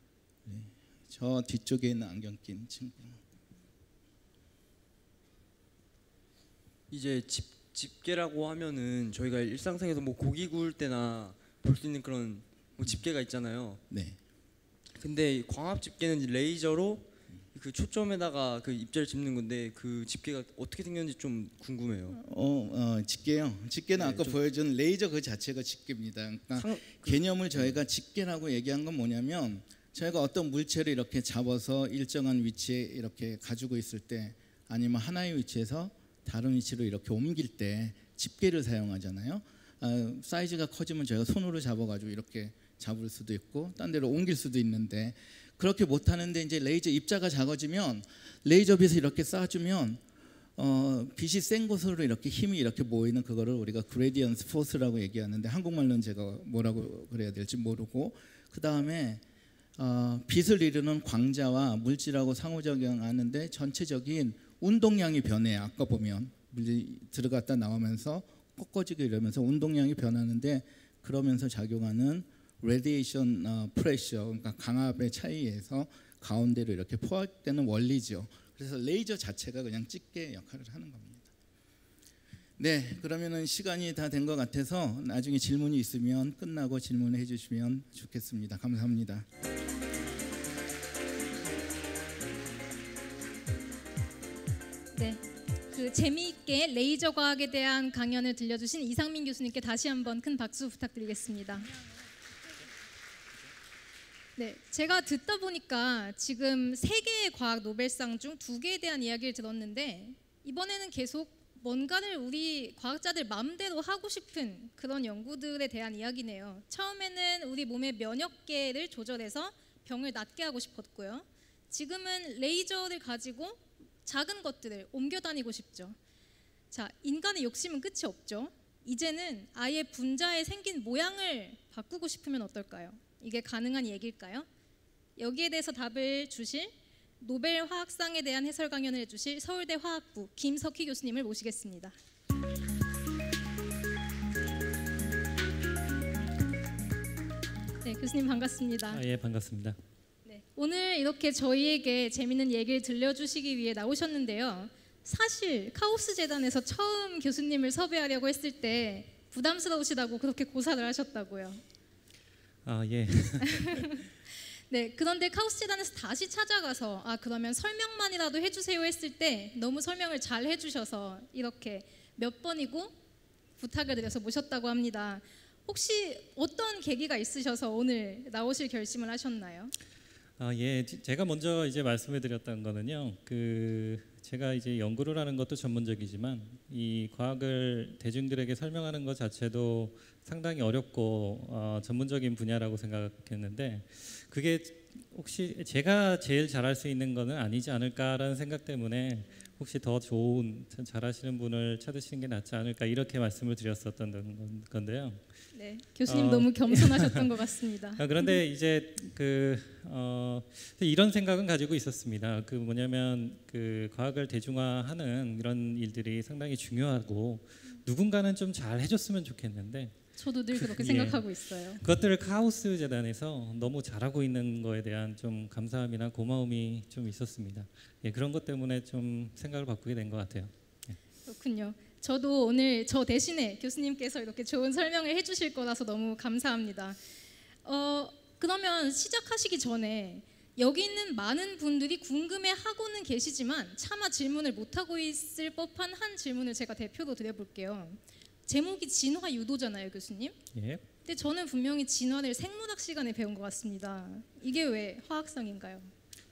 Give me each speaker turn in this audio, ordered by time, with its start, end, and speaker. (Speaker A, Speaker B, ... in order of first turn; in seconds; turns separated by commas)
Speaker A: 0.5-3.2, Speaker B: 6.9-13.8, Speaker A: 13.9-14.2, Speaker B: 14.9-22.2, Speaker A: 22.1-50.0, Speaker B: 23.9-24.4, Speaker B: 26.5-27.8, Speaker A: 50.6-59.2, Speaker A: 59.8-81.3, Speaker A: 82.6-89.2, Speaker C: 95.0-101.7, Speaker C: 104.4-126.0, Speaker C: 126.7-134.4, Speaker C: 135.2-141.9, Speaker C: 147.8-149.0, Speaker D: 148.9-149.8, Speaker C: 150.2-161.6, Speaker D: 162.6-163.8, Speaker C: 163.5-163.9, Speaker C: 164.7-172.9, Speaker C: 173.6-179.7, Speaker D: 180.4-205.2, Speaker C: 205.5-208.4, Speaker D: 206.1-207.3, Speaker D: 208.0-219.9, Speaker C: 220.2-221.8, Speaker D: 220.5-230.5, Speaker C: 231.2-237.0, Speaker C: 237.6-250.4, Speaker D: 250.5-250.8, Speaker C: 251.0-255.9